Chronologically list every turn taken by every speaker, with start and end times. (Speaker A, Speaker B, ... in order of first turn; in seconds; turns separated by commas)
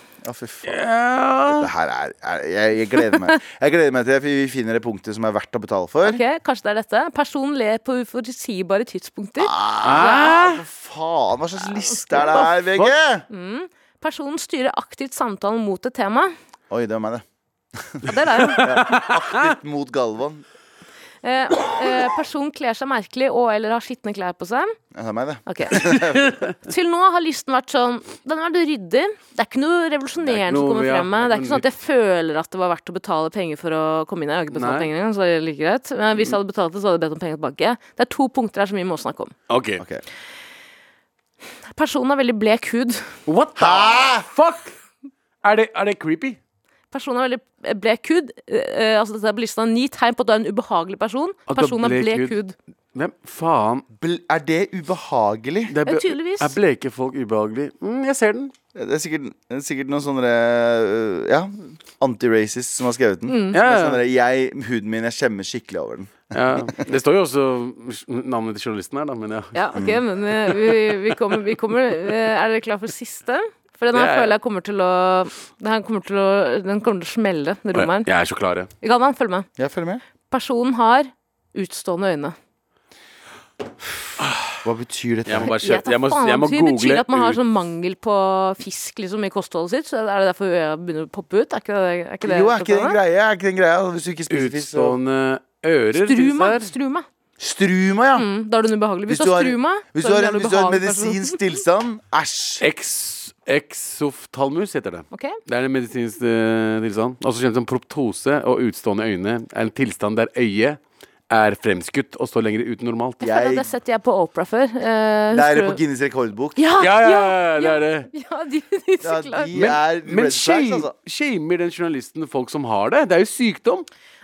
Speaker A: 0.2-0.8, Speaker B: 0.6-1.7, Speaker A: 1.5-6.2, Speaker C: 6.0-10.3, Speaker A: 9.4-13.2, Speaker B: 9.8-10.6, Speaker C: 11.8-12.4, Speaker C: 13.3-16.3, Speaker A: 16.7-17.2, Speaker A: 17.7-20.4, Speaker C: 18.0-18.7, Speaker B: 18.6-19.5, Speaker C: 21.2-24.7, Speaker A: 24.9-26.4, Speaker C: 25.4-39.3, Speaker B: 30.2-31.6, Speaker B: 34.5-34.9, Speaker B: 39.5-39.8, Speaker A: 39.8-40.0, Speaker C: 41.7-43.0, Speaker B: 43.2-44.7, Speaker A: 43.5-44.3, Speaker B: 45.4-46.4, Speaker C: 46.9-52.5, Speaker B: 51.5-52.4, Speaker B: 52.9-53.8, Speaker A: 54.0-55.7, Speaker B: 55.7-58.5, Speaker C: 55.8-56.5, Speaker A: 58.7-66.7, Speaker C: 63.3-63.5, Speaker B: 63.5-64.0, Speaker B: 66.3-69.6, Speaker C: 69.5-78.1, Speaker A: 69.7-70.0, Speaker B: 70.4-71.0, Speaker B: 73.9-74.3, Speaker B: 77.7-78.7, Speaker C: 78.8-79.5, Speaker A: 79.6-80.0, Speaker C: 80.3-82.3, Speaker B: 84.2-84.6, Speaker A: 84.6-85.5, Speaker B: 85.2-87.4, Speaker C: 85.4-93.0, Speaker A: 92.2-95.0, Speaker B: 94.3-96.7, Speaker C: 95.9-97.0, Speaker A: 97.4-98.3, Speaker C: 98.2-101.3, Speaker A: 99.1-102.6, Speaker B: 102.6-110.8, Speaker C: 105.1-105.4, Speaker B: 111.3-113.2, Speaker A: 113.2-113.7, Speaker C: 113.2-115.8, Speaker A: 115.3-116.6, Speaker C: 116.6-119.5, Speaker B: 116.8-118.1, Speaker A: 119.0-120.9, Speaker B: 119.5-123.9